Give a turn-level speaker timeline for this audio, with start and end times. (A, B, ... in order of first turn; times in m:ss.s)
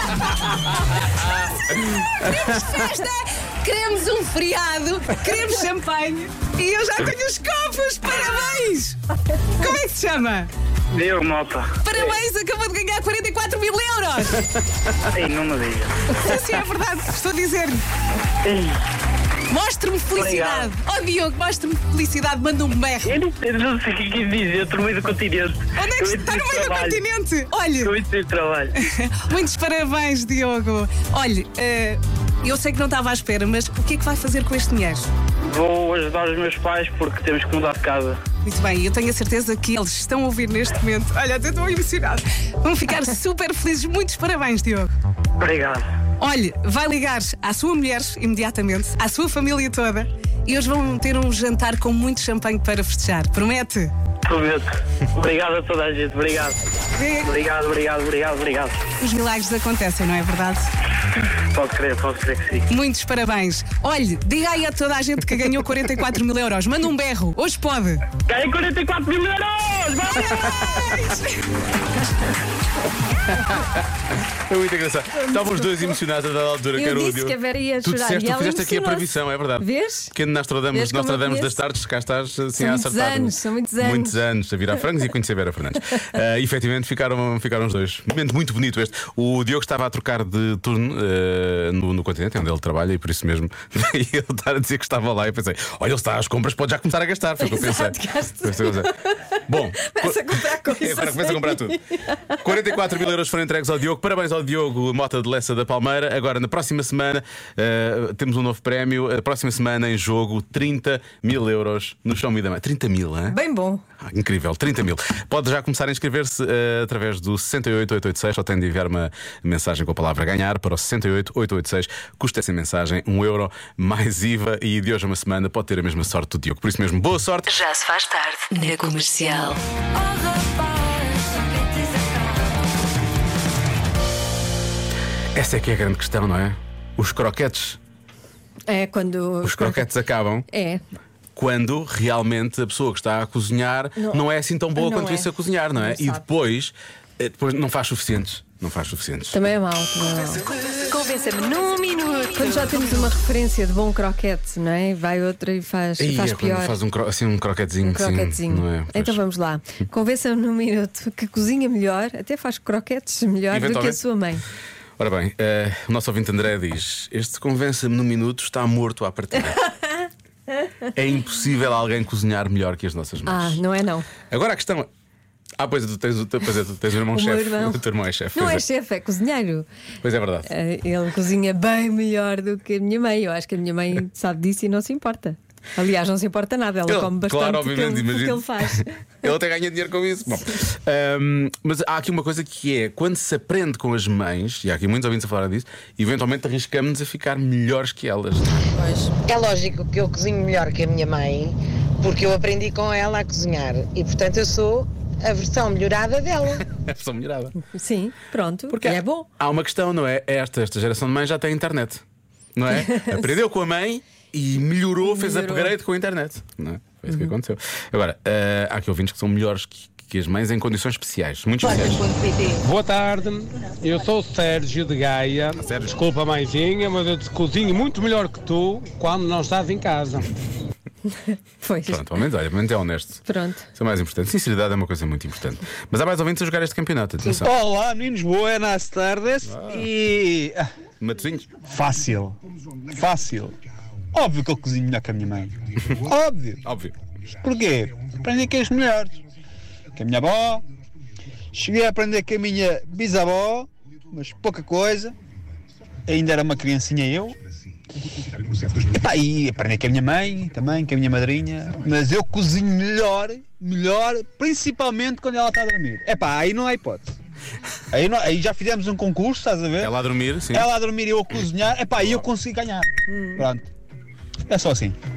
0:02.1-0:09.0 A
0:09.6-0:10.5 A
0:10.9-0:12.1 B
0:11.8-0:14.4 A
0:15.1-0:16.0 B
0:16.1-0:17.8 A
0:18.4-0:18.8 B
0:19.5-0:23.1 A
0:20.1-0:20.7 B
0:23.0-0:27.0 B
0:25.8-0:27.9 A
0:27.8-0:28.7 B
0:28.8-0:35.1 A
0:35.5-0:38.2 B
0:38.4-0:44.9 A
0:45.4-0:45.9 B
0:46.2-0:53.9 A
0:54.2-0:56.6 B
0:57.0-0:57.3 A
0:57.2-0:58.8 B
0:59.0-1:00.7 A
1:01.5-1:02.7 B
1:02.7-1:08.0 A
1:08.3-1:10.7 B
1:10.3-1:11.0 C
1:13.3-1:13.8 C
1:14.5-1:39.0 C
1:15.2-1:16.0 D
1:16.7-1:20.1 D
1:20.7-1:21.6 D
1:22.6-1:24.2 D
1:37.4-1:42.7 D
1:39.5-1:41.8 C
1:42.4-1:53.4 C
1:53.3-1:53.8 D
1:54.0-2:07.5 C
2:07.5-2:09.6 E
2:15.3-2:17.8 C
2:18.7-2:19.9 D
2:19.4-2:20.5 C
2:20.5-2:20.8 D
2:21.3-2:29.4 C
2:24.0-2:26.2 D
2:29.3-2:36.8 D
2:36.0-2:39.2 C
2:37.8-2:44.4 D
2:43.5-2:44.0 C
2:45.0-2:49.6 C
2:49.6-2:50.1 D
2:50.9-2:53.6 C
2:53.3-2:54.1 D
2:54.3-2:54.9 C
2:55.6-2:58.6 C
2:57.1-2:59.7 D
3:00.0-3:00.5 C
3:00.5-3:09.0 D
3:06.9-3:18.7 C
3:18.7-3:19.1 D
3:19.3-3:26.6 F
3:26.7-3:27.5 C
3:27.6-3:29.3 D
3:28.7-3:32.0 C
3:32.6-3:42.1 C
3:32.7-3:33.2 D
3:35.0-3:35.7 D
3:42.6-3:50.3 G
3:45.6-3:46.0 C
3:51.2-3:52.2 D
3:51.9-3:53.2 C
3:53.3-3:53.7 D
3:53.7-3:57.5 C
3:57.4-4:00.7 H
3:59.4-3:59.9 C
4:01.0-4:01.5 C
4:01.6-4:03.6 H
4:04.1-4:06.6 H
4:06.6-4:06.9 C
4:07.4-4:09.2 H
4:10.0-4:10.6 H
4:11.5-4:15.1 H
4:16.0-4:17.4 H
4:18.3-4:27.1 H
4:27.9-4:29.9 H
4:29.8-4:30.7 C
4:30.5-4:33.6 H
4:33.1-4:33.4 D
4:34.5-4:35.0 H